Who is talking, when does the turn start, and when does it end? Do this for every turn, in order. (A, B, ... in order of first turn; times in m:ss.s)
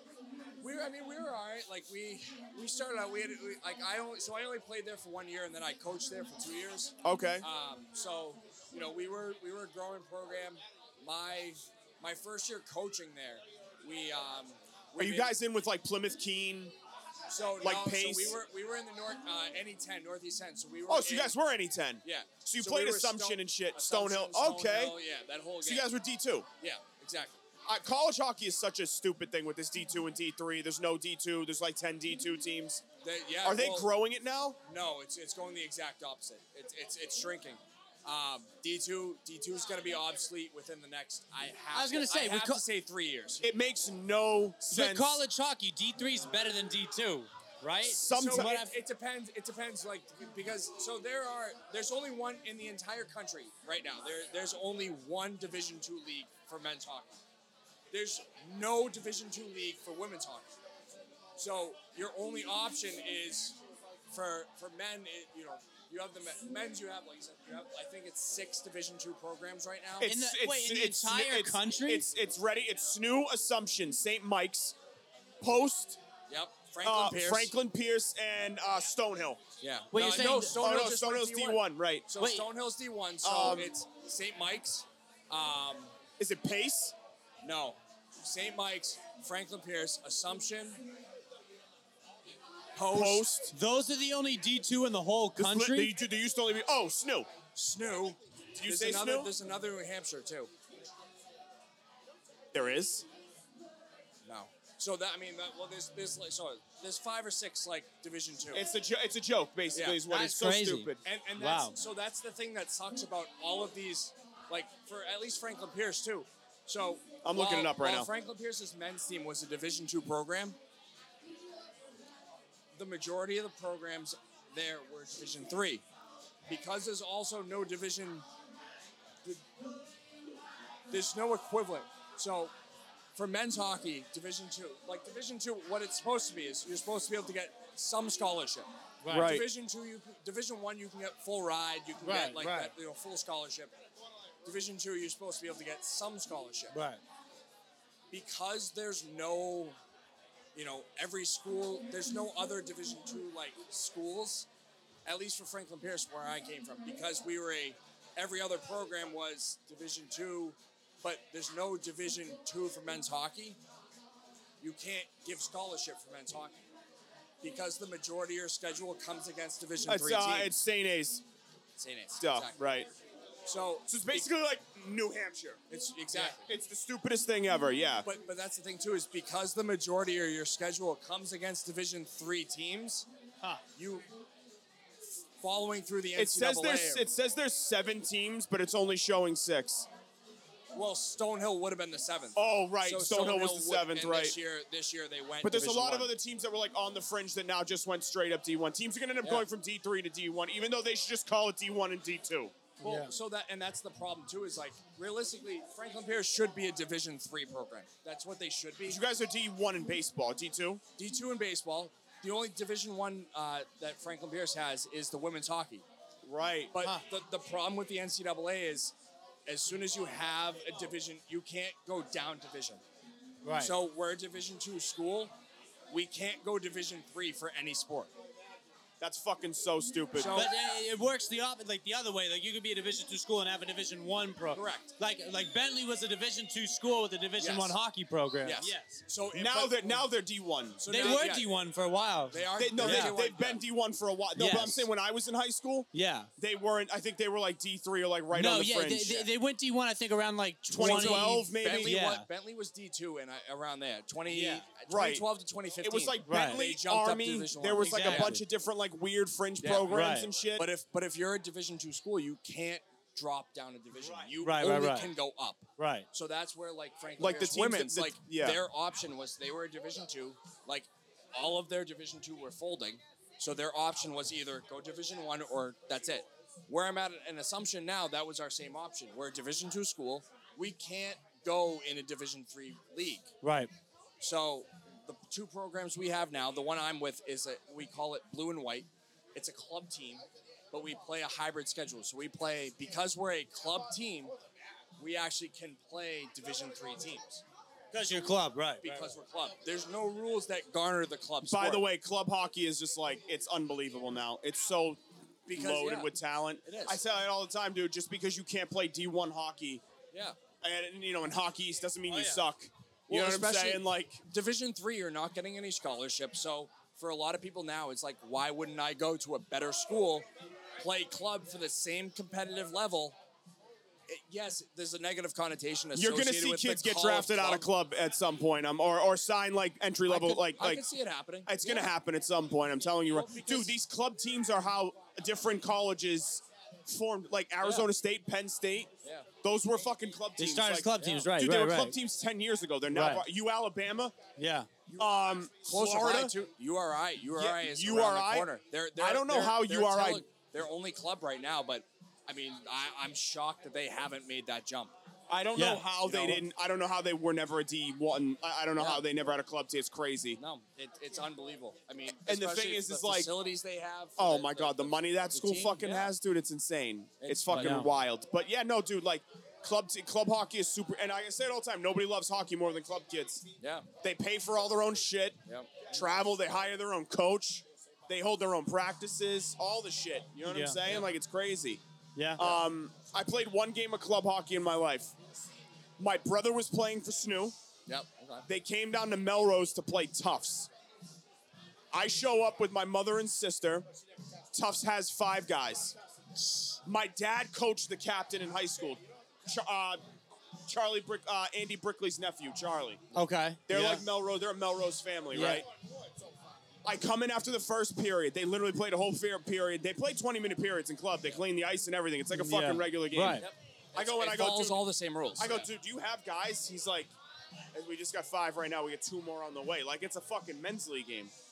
0:00.6-0:15.3 A
0:07.0-0:07.4 B
0:15.0-0:16.7 B
0:17.3-0:21.4 A
0:17.6-0:18.4 B
0:20.9-0:25.0 B
0:22.0-0:25.9 A
0:25.6-0:26.5 B
0:26.6-0:27.4 A
0:27.6-0:32.8 B
0:33.0-0:33.9 A
0:33.4-0:34.6 B
0:34.6-0:43.4 A
0:41.7-0:42.6 C
0:43.4-0:45.2 B
0:44.7-0:48.7 C
0:47.8-0:48.6 B
0:48.0-0:57.2 A
0:57.9-1:00.5 A
1:01.4-1:03.6 A
1:04.1-1:10.1 A
1:10.0-1:14.8 B
1:10.0-1:12.1 C
1:15.4-1:16.0 B
1:16.3-1:17.5 A
1:16.8-1:19.4 B
1:19.6-1:25.9 A
1:19.9-1:20.6 C
1:20.3-1:22.1 B
1:22.2-1:22.5 C
1:23.2-1:23.7 B
1:26.2-1:26.9 B
1:27.4-1:30.8 A
1:32.7-1:33.4 A
1:32.9-1:33.5 B
1:33.5-1:35.9 C
1:35.4-1:37.3 B
1:37.5-1:40.5 A
1:38.5-1:39.3 B
1:42.5-1:43.0 B
1:44.2-1:48.6 A
1:48.5-1:51.0 B
1:49.7-1:50.0 A
1:50.1-1:51.8 C
1:51.0-2:00.6 A
1:57.2-1:58.1 B
2:02.7-2:05.8 A
2:06.5-2:08.2 A
2:10.9-2:12.5 A
2:13.1-2:23.7 A
2:19.0-2:19.4 C
2:19.1-2:19.5 B
2:22.0-2:22.7 C
2:24.4-2:26.7 A
2:26.7-2:27.0 C
2:28.1-2:29.8 A
2:30.5-2:34.5 A
2:35.0-2:43.6 A
2:44.6-2:46.6 A
2:47.4-2:50.6 A
2:49.9-2:51.2 B
2:51.8-2:52.8 A
2:52.2-2:52.9 B
2:53.4-2:54.3 A
2:53.9-2:55.6 B
2:55.7-2:56.5 A
2:56.2-2:58.0 B
2:58.0-3:03.1 A
3:03.8-3:04.0 A
3:05.4-3:07.2 A
3:06.2-3:09.9 B
3:10.7-3:16.1 A
3:12.4-3:14.4 B
3:15.4-3:22.5 B
3:22.8-3:23.1 C
3:22.8-3:29.0 A
3:28.8-3:30.8 B
3:31.0-3:35.8 A
3:36.2-3:36.7 B
3:36.7-3:38.9 A
3:39.4-3:42.8 A
3:43.4-3:43.7 C
3:43.6-3:45.3 A
3:45.9-3:48.1 A
3:49.0-3:50.5 B
3:50.1-3:50.5 A
3:50.3-3:59.0 C
3:54.5-3:54.9 A
3:57.4-3:57.8 A
3:58.4-4:00.1 A
3:59.3-4:01.1 B
4:00.8-4:01.5 A
4:00.8-4:03.1 C
4:02.3-4:03.6 A
4:02.6-4:09.3 B
4:04.3-4:04.9 C
4:05.9-4:06.3 C
4:08.3-4:12.3 C
4:10.7-4:12.0 B
4:10.8-4:18.4 A
4:14.3-4:14.7 C
4:14.9-4:20.7 B
4:16.3-4:16.6 C
4:17.8-4:18.4 C
4:19.6-4:43.3 A
4:19.9-4:20.3 C
4:24.0-4:25.1 C
4:25.8-4:26.1 C
4:27.2-4:28.6 B
4:43.4-4:43.7 C
4:44.2-4:54.3 A
4:55.0-4:57.4 A
4:57.9-4:59.1 C
4:58.8-5:01.9 A
5:01.4-5:09.8 B
5:05.5-5:06.1 A
5:06.6-5:07.0 A
5:10.1-5:10.4 A
5:10.6-5:14.2 B
5:12.1-5:12.4 C
5:13.1-5:20.2 A
5:20.8-5:23.2 A
5:24.1-5:27.7 A
5:25.9-5:30.8 B
5:30.0-5:31.9 A
5:31.4-5:38.9 B
5:33.1-5:33.7 A
5:37.6-5:37.9 A
5:39.0-5:39.3 A
5:39.4-5:44.1 B
5:40.4-5:42.0 C
5:41.0-5:41.3 A
5:42.9-5:43.2 C
5:44.4-5:44.7 C
5:44.8-5:54.9 A
5:45.0-5:46.4 B
5:47.3-5:50.2 B
5:55.3-6:00.4 B
5:55.5-5:55.9 C
5:56.0-5:56.4 A
5:58.7-5:59.0 A
6:00.4-6:06.1 A
6:02.2-6:03.3 B
6:04.2-6:13.4 B
6:07.2-6:07.8 A
6:07.5-6:07.9 C
6:13.6-6:13.8 A
6:14.0-6:21.8 B
6:15.4-6:15.9 A
6:20.4-6:20.9 C
6:20.8-6:21.1 A
6:22.2-6:22.5 C
6:22.4-6:25.1 B
6:26.0-6:27.6 B
6:27.8-6:28.4 A
6:28.5-6:30.7 B
6:31.9-6:33.8 B
6:34.5-6:36.0 B
6:36.8-6:40.0 B
6:40.7-6:43.0 B
6:43.1-6:44.1 C
6:43.7-6:45.7 B
6:45.3-6:45.6 C
6:46.8-6:54.8 B
6:52.3-6:53.5 C
6:53.3-6:55.7 A
6:55.4-6:57.1 B
6:57.7-7:01.3 B